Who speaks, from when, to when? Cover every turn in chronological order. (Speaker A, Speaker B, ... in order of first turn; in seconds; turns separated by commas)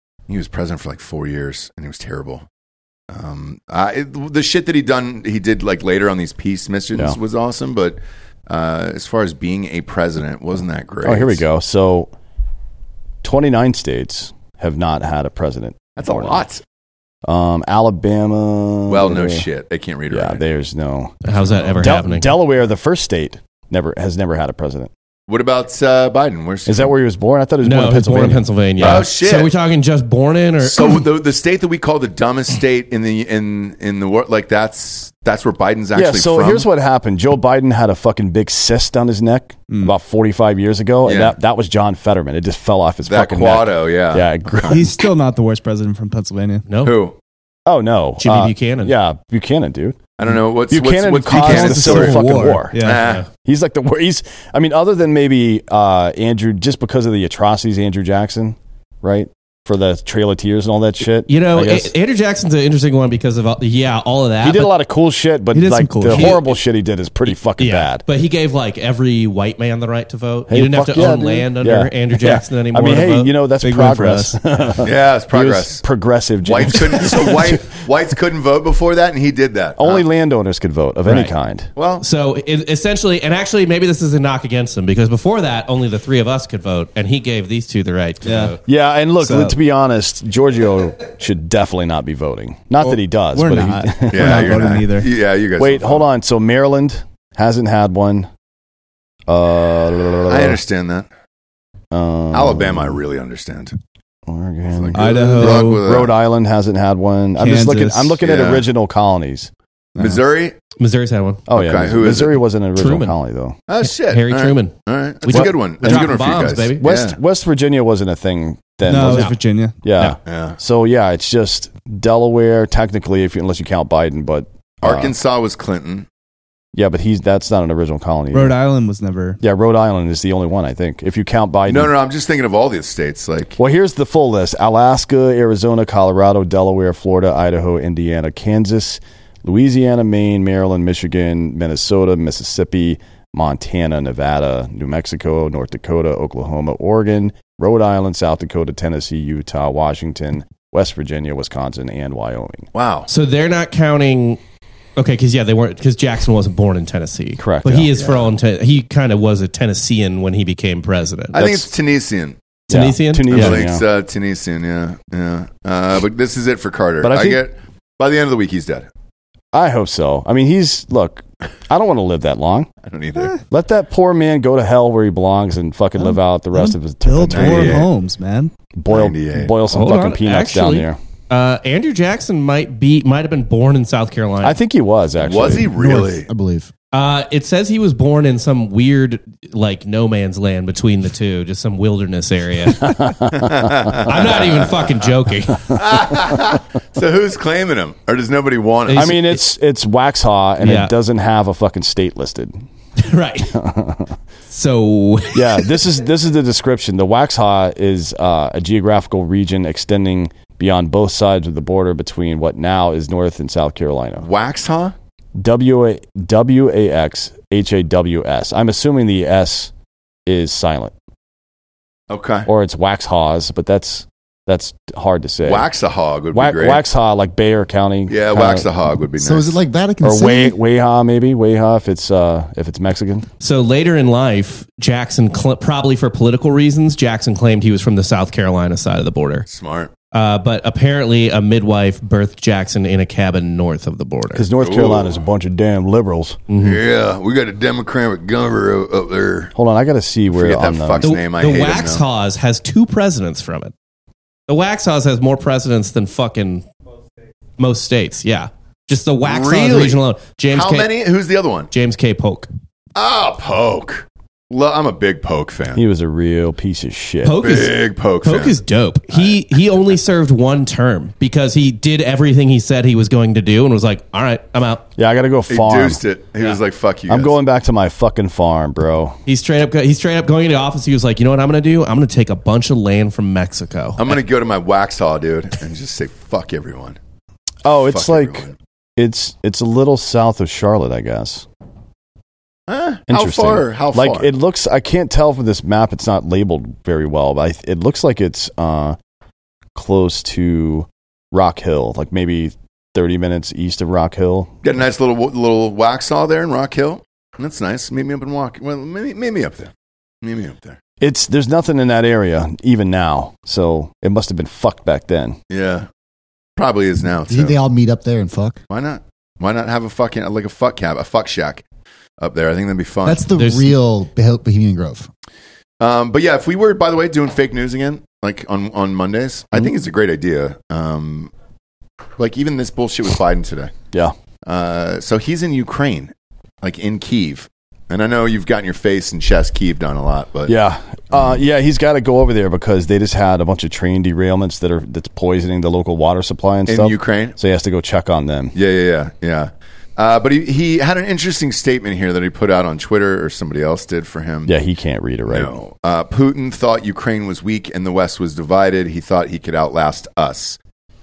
Speaker A: 0.3-2.5, Speaker A: 3.1-11.4, Speaker B: 11.0-12.1, Speaker B: 13.2-16.4, Speaker A: 16.0-16.6, Speaker B: 17.2-19.4, Speaker A: 18.9-20.4, Speaker B: 20.1-24.9, Speaker C: 21.2-22.3, Speaker A: 25.3-26.9, Speaker B: 26.6-29.0, Speaker C: 27.6-31.0, Speaker A: 28.8-29.5, Speaker A: 30.6-36.7, Speaker B: 35.9-45.0, Speaker A: 41.0-41.4, Speaker A: 43.0-44.8, Speaker D: 44.7-46.6, Speaker C: 46.7-47.0, Speaker A: 46.8-47.1, Speaker B: 47.6-50.0, Speaker C: 48.2-48.9, Speaker A: 50.2-52.2, Speaker B: 50.7-52.8, Speaker D: 51.3-53.2, Speaker A: 52.8-53.2, Speaker C: 52.9-53.2, Speaker B: 53.4-61.9, Speaker C: 61.3-64.8, Speaker B: 64.4-68.0, Speaker D: 65.5-66.3, Speaker C: 66.1-66.5, Speaker C: 67.3-73.3, Speaker B: 70.5-77.8, Speaker D: 73.6-74.4, Speaker A: 74.8-75.8, Speaker A: 76.4-80.0, Speaker B: 79.8-81.7, Speaker A: 81.8-82.0, Speaker C: 82.0-88.6, Speaker D: 88.2-88.6, Speaker B: 88.6-94.6, Speaker D: 89.2-89.5, Speaker D: 92.8-95.1, Speaker A: 94.1-96.0, Speaker B: 95.6-98.3, Speaker B: 99.3-100.6, Speaker A: 100.3-101.1, Speaker B: 101.9-103.0, Speaker A: 102.3-103.8, Speaker B: 104.3-109.5, Speaker A: 104.7-106.1, Speaker D: 104.9-105.8, Speaker D: 107.4-108.2, Speaker A: 108.2-108.7, Speaker A: 110.0-110.5, Speaker C: 110.8-111.4, Speaker B: 111.5-113.6, Speaker A: 111.5-112.4, Speaker C: 112.8-113.2, Speaker A: 113.7-117.2, Speaker C: 113.8-116.8, Speaker B: 115.3-125.1, Speaker D: 118.8-119.8, Speaker C: 119.0-119.4, Speaker A: 120.2-120.6, Speaker A: 124.8-126.1, Speaker B: 126.7-128.6, Speaker D: 128.3-129.4, Speaker B: 129.4-131.9, Speaker A: 131.7-133.6, Speaker B: 133.6-152.7, Speaker A: 152.7-153.1, Speaker C: 153.1-154.4, Speaker C: 154.9-161.7, Speaker B: 157.4-157.9, Speaker A: 158.0-158.3, Speaker A: 161.3-162.4, Speaker C: 162.7-163.6, Speaker B: 162.7-163.8, Speaker A: 163.3-168.9, Speaker B: 167.0-167.4, Speaker B: 169.5-172.7, Speaker A: 172.8-173.4, Speaker B: 173.5-177.9, Speaker D: 176.5-178.5, Speaker A: 177.2-177.9, Speaker B: 178.8-181.0, Speaker A: 178.9-179.5, Speaker C: 179.7-184.6, Speaker B: 184.4-185.7, Speaker A: 185.2-186.3, Speaker E: 185.6-186.7, Speaker C: 186.9-193.1, Speaker B: 192.8-194.1, Speaker A: 193.4-194.9, Speaker C: 193.9-195.8, Speaker A: 195.7-199.2, Speaker C: 198.9-199.4, Speaker B: 198.9-202.6, Speaker C: 200.6-200.9, Speaker C: 203.0-203.6, Speaker B: 203.5-204.1, Speaker C: 204.5-205.8, Speaker B: 205.3-214.3, Speaker A: 214.2-214.9, Speaker B: 215.3-219.7, Speaker B: 220.2-220.9, Speaker A: 222.1-222.5, Speaker B: 222.4-225.7, Speaker A: 225.4-226.8, Speaker B: 226.3-228.7, Speaker A: 228.1-229.6, Speaker E: 229.2-230.6, Speaker B: 230.0-233.3, Speaker C: 233.4-239.4, Speaker A: 239.5-239.9, Speaker C: 240.1-244.5, Speaker B: 244.3-246.4, Speaker A: 244.6-245.2, Speaker C: 246.5-246.8, Speaker A: 246.6-249.5, Speaker B: 249.5-251.1, Speaker A: 250.3-252.0, Speaker C: 251.0-253.7, Speaker C: 254.5-256.6, Speaker C: 257.6-260.9, Speaker A: 259.2-261.7, Speaker C: 261.7-262.5, Speaker A: 262.9-265.8, Speaker B: 265.7-267.4, Speaker C: 267.2-274.8, Speaker A: 267.4-268.6, Speaker A: 269.1-269.4, Speaker B: 275.0-276.0, Speaker A: 275.5-277.4, Speaker B: 277.1-279.2, Speaker C: 279.2-284.1, Speaker A: 284.0-287.0, Speaker B: 287.6-291.4, Speaker A: 287.7-288.5, Speaker A: 292.7-294.3, Speaker B: 293.1-299.0, Speaker B: 299.7-304.6, Speaker A: 304.6-310.8, Speaker B: 311.0-315.4, Speaker A: 315.5-315.9, Speaker A: 316.6-317.6, Speaker E: 317.3-318.6, Speaker A: 318.7-321.6, Speaker A: 322.2-323.3, Speaker E: 323.1-325.1, Speaker C: 323.3-323.8, Speaker A: 325.8-331.3, Speaker A: 332.2-333.7, Speaker A: 334.4-340.6, Speaker B: 340.5-348.5, Speaker A: 341.1-341.4, Speaker A: 346.7-347.4, Speaker A: 348.5-354.5, Speaker B: 354.4-355.6, Speaker A: 355.3-360.6